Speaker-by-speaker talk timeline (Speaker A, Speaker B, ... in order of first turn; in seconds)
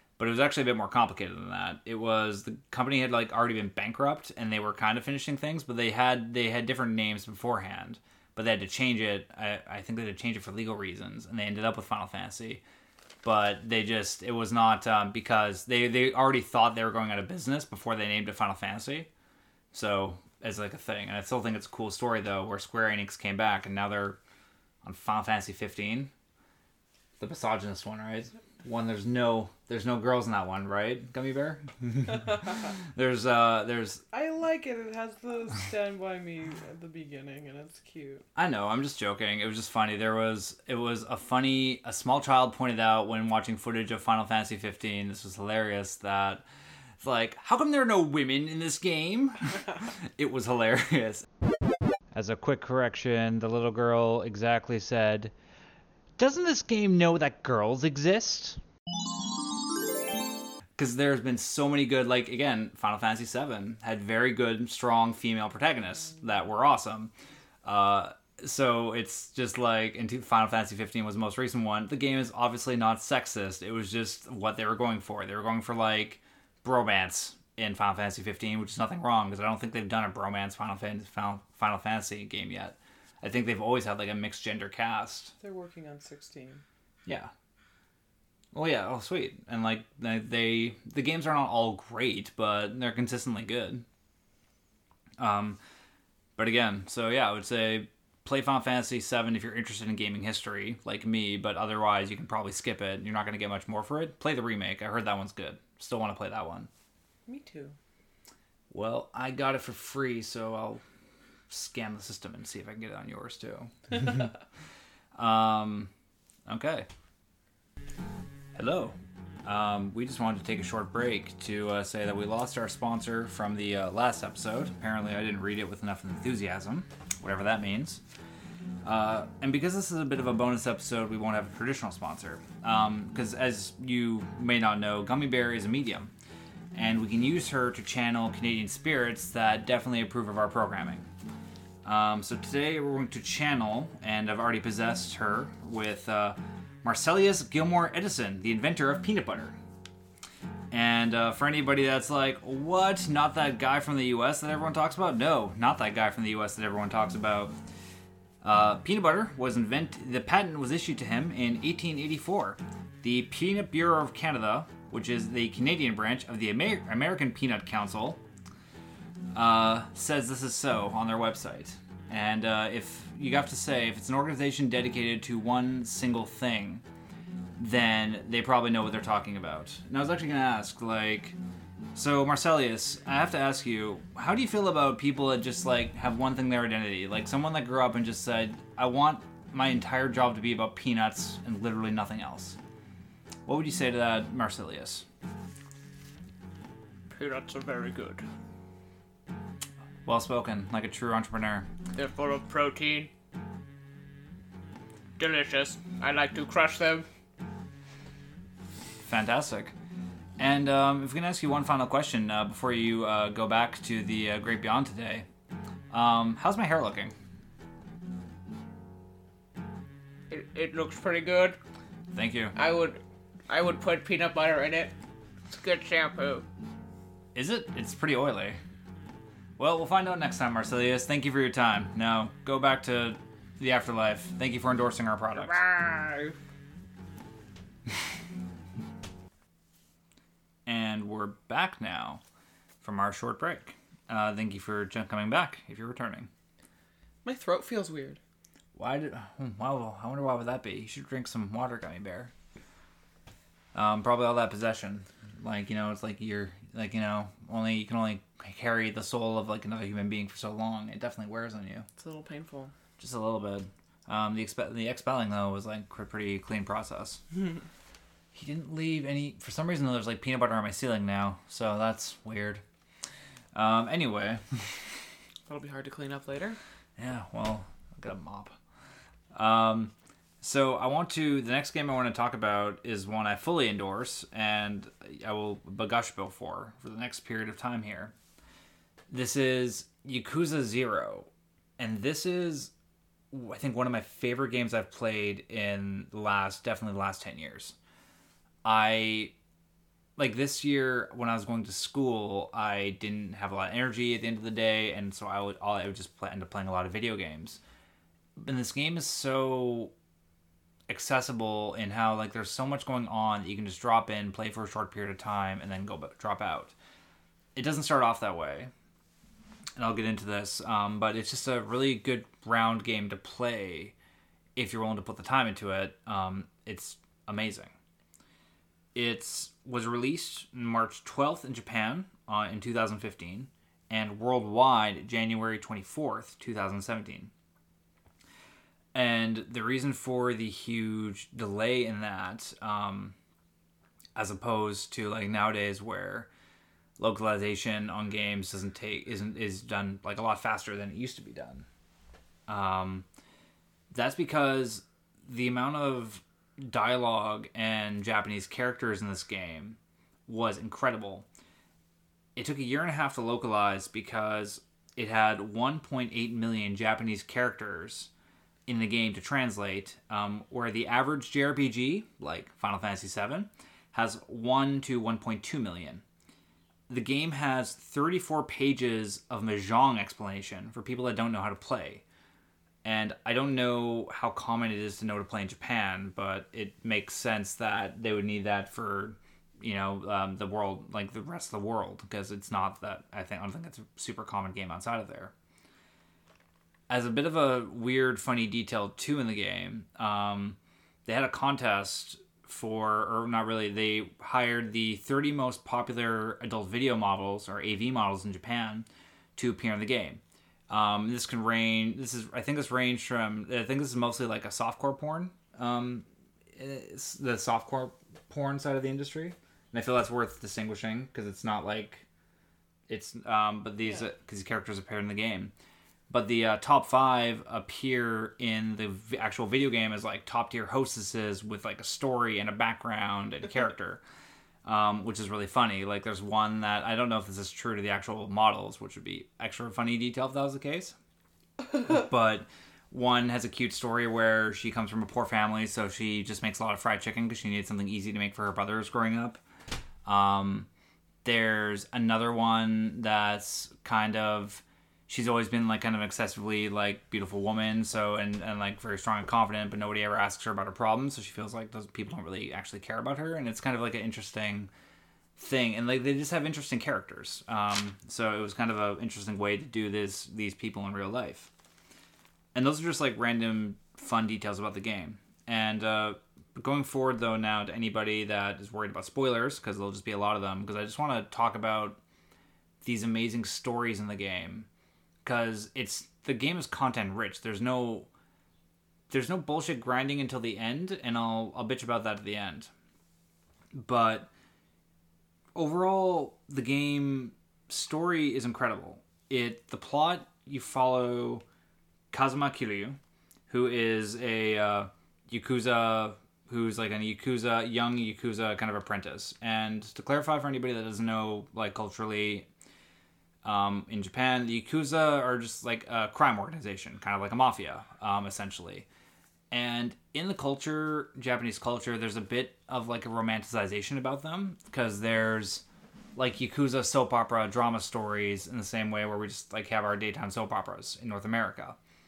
Speaker A: 0.2-12.6, 13.2-19.1, 19.7-24.2, 24.8-26.1, 27.2-34.0, 38.4-46.5, 47.0-51.3, 52.1-55.3, 56.2-58.6, 60.8-67.1, 67.6-85.3, 87.1-87.3, 88.5-93.8, 95.2-95.6, 96.4-106.7, 108.7-110.8, 111.5-114.3, 115.1-115.9, 116.5-116.9, 118.5-128.0, 128.8-136.1, 136.7-141.1, 141.8-149.6, 150.7-157.6, 158.4-168.2, 169.3-176.8, 177.6-181.4, 181.9-192.6, 193.5-195.1, 200.1-201.7, 209.1-209.8, 210.4-215.3, 215.9-217.1, 222.1-222.6, 227.3-228.6, 229.6-235.6, 240.7-242.2, 242.8-246.3, 248.8-252.3, 253.7-261.9, 263.0-267.2, 268.3-272.6, 273.5-274.8, 277.0-278.6, 279.3-288.1, 289.1-292.7, 293.3-297.8, 298.6-299.3, 300.2-307.6, 308.4-309.9, 310.9-316.8, 317.6-318.7, 319.8-324.0, 324.6-327.7, 328.9-337.3, 338.9-343.1, 344.1-346.3, 347.0-351.6, 352.5-353.1, 353.9-361.3, 362.4-368.1, 368.7-376.0, 376.9-382.0, 382.8-395.3, 396.9-422.1, 422.9-425.5, 426.1-434.0, 434.6-441.0, 441.8-449.4, 450.1-450.7, 451.2-464.7, 465.4-471.5, 472.6-482.0, 482.8-484.7, 485.2-488.1, 489.1-492.7, 493.7-494.3, 495.6-501.4, 502.1-512.5, 513.4-518.9, 519.5-525.6, 526.1-531.8
Speaker B: 34.1-38.2, 85.4-86.6, 107.3-107.8, 247.2-248.2, 262.0-262.7, 275.5-276.6
Speaker C: 197.1-198.2, 201.9-203.1, 205.2-207.1, 220.3-221.6, 222.6-224.9, 225.5-226.5, 235.4-236.4